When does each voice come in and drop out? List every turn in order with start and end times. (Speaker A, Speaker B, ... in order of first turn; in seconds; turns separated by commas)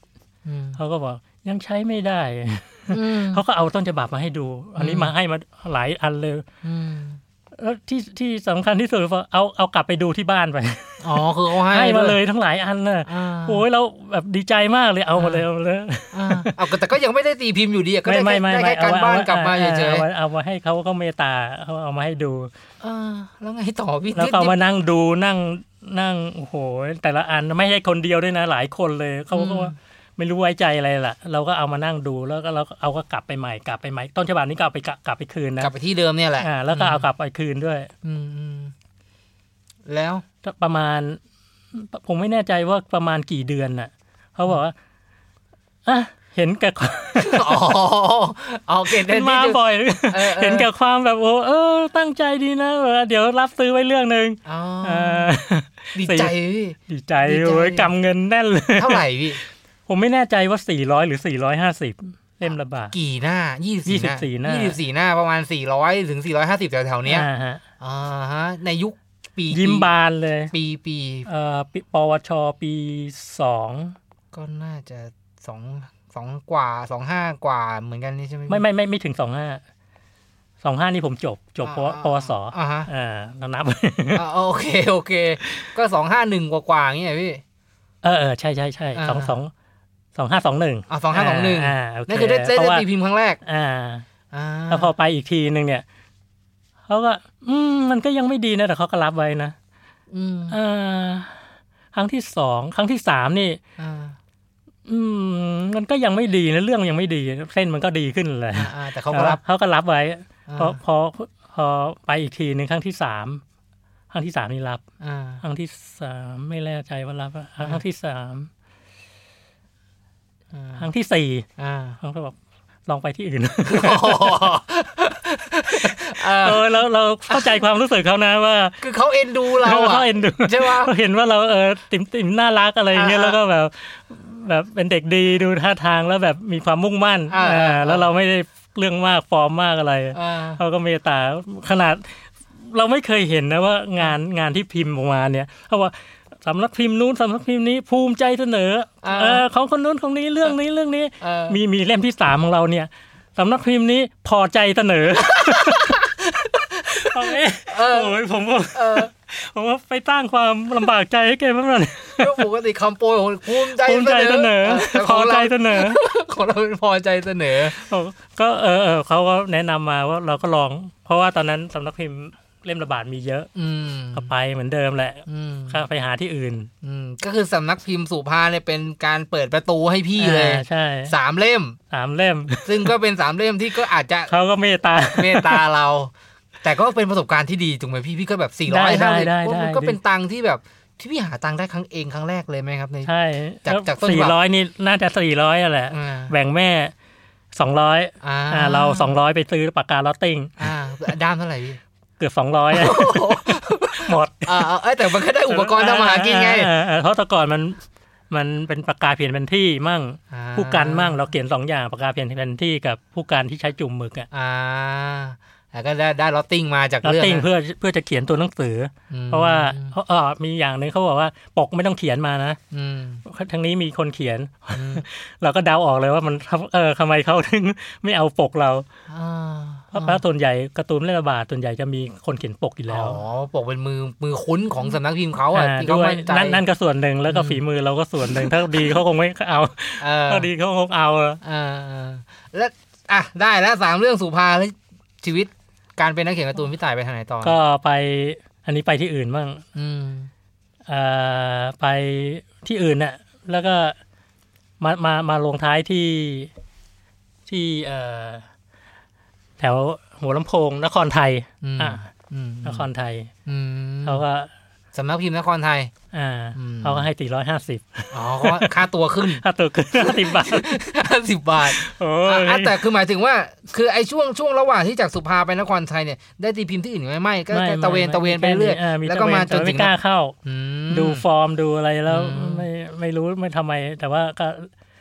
Speaker A: 0.4-0.8, Speaker B: 0.8-6.4, Speaker A: 2.9-3.4, Speaker A: 4.8-5.1, Speaker A: 6.6-7.2, Speaker B: 7.6-11.0, Speaker A: 11.0-12.2, Speaker B: 11.7-16.6, Speaker A: 13.1-13.6, Speaker A: 15.2-15.4, Speaker A: 16.1-20.1, Speaker B: 18.0-22.5, Speaker A: 22.8-24.6, Speaker B: 24.1-35.7, Speaker A: 29.3-29.7, Speaker A: 35.6-37.1, Speaker B: 36.4-37.9, Speaker A: 38.0-38.7, Speaker A: 39.9-40.2, Speaker B: 40.4-41.2, Speaker B: 41.7-44.7, Speaker B: 45.9-47.6, Speaker A: 47.2-50.7, Speaker B: 48.9-56.3, Speaker A: 54.4-55.3, Speaker A: 55.9-57.9, Speaker B: 56.9-59.0, Speaker A: 58.8-59.4, Speaker B: 59.9-62.9, Speaker A: 62.9-67.3, Speaker B: 63.9-64.8, Speaker B: 67.0-67.6, Speaker A: 67.8-69.9, Speaker B: 69.5-70.5, Speaker A: 70.5-71.3, Speaker B: 71.2-74.0, Speaker A: 74.3-78.6, Speaker B: 78.5-79.6, Speaker B: 80.6-84.2, Speaker A: 81.6-82.9, Speaker A: 84.1-87.4, Speaker B: 85.4-85.7, Speaker B: 88.0-89.5, Speaker A: 89.0-89.3, Speaker B: 90.2-92.8, Speaker A: 90.9-93.4, Speaker B: 93.4-94.1, Speaker A: 94.3-94.9, Speaker B: 94.7-95.8, Speaker B: 96.9-99.5, Speaker A: 100.1-100.5, Speaker B: 100.5-101.4, Speaker B: 101.9-103.6, Speaker A: 103.8-104.2, Speaker B: 104.8-113.4, Speaker A: 108.5-109.4, Speaker A: 110.5-110.8, Speaker B: 114.1-114.8, Speaker A: 115.0-115.4, Speaker B: 115.4-118.5, Speaker A: 120.5-120.8, Speaker B: 120.8-121.5, Speaker A: 121.6-122.0, Speaker B: 122.0-122.3, Speaker B: 122.9-124.4, Speaker A: 123.7-126.7, Speaker B: 126.2-128.8, Speaker A: 127.3-127.6, Speaker A: 128.8-130.9, Speaker B: 129.6-156.0, Speaker A: 132.9-133.4, Speaker A: 137.3-138.1, Speaker A: 140.1-140.6, Speaker A: 149.0-149.4, Speaker A: 151.2-151.6, Speaker A: 155.2-158.2, Speaker B: 156.9-162.4, Speaker A: 158.7-159.1, Speaker A: 162.2-167.8, Speaker B: 163.8-166.0, Speaker B: 167.7-173.5, Speaker A: 173.5-174.3, Speaker B: 174.1-176.7, Speaker A: 175.3-175.8, Speaker A: 176.8-181.8, Speaker B: 180.2-181.1, Speaker B: 181.9-182.9, Speaker A: 182.6-184.3, Speaker B: 184.3-185.6, Speaker A: 185.1-193.1, Speaker B: 188.7-190.0, Speaker B: 193.0-196.9, Speaker A: 193.6-194.4, Speaker A: 195.9-196.3, Speaker B: 197.5-200.6, Speaker A: 198.2-199.2, Speaker A: 200.6-201.8, Speaker B: 202.2-204.6, Speaker A: 202.7-206.7, Speaker B: 205.5-214.3, Speaker A: 210.3-211.2, Speaker A: 214.3-217.5, Speaker B: 217.0-222.6, Speaker A: 219.1-219.9, Speaker A: 222.7-223.2, Speaker B: 223.2-228.8, Speaker A: 224.7-225.0, Speaker A: 229.1-230.2, Speaker B: 229.9-233.2, Speaker A: 232.9-236.6, Speaker B: 235.5-241.4, Speaker A: 237.3-237.6, Speaker A: 240.0-240.5, Speaker A: 241.4-247.6, Speaker B: 247.4-249.6, Speaker A: 249.7-250.3, Speaker B: 250.9-254.0, Speaker B: 254.8-256.5, Speaker B: 257.5-258.4, Speaker B: 259.6-262.1, Speaker A: 261.6-262.9, Speaker B: 262.6-263.3, Speaker A: 263.4-264.2, Speaker B: 264.1-264.5, Speaker A: 264.9-265.9, Speaker B: 266.1-268.7, Speaker A: 266.6-267.0, Speaker A: 268.1-269.4, Speaker B: 269.4-270.7, Speaker A: 270.0-279.9, Speaker B: 271.6-272.9, Speaker B: 277.5-280.4, Speaker A: 280.4-281.2, Speaker B: 280.9-284.7, Speaker A: 282.1-282.6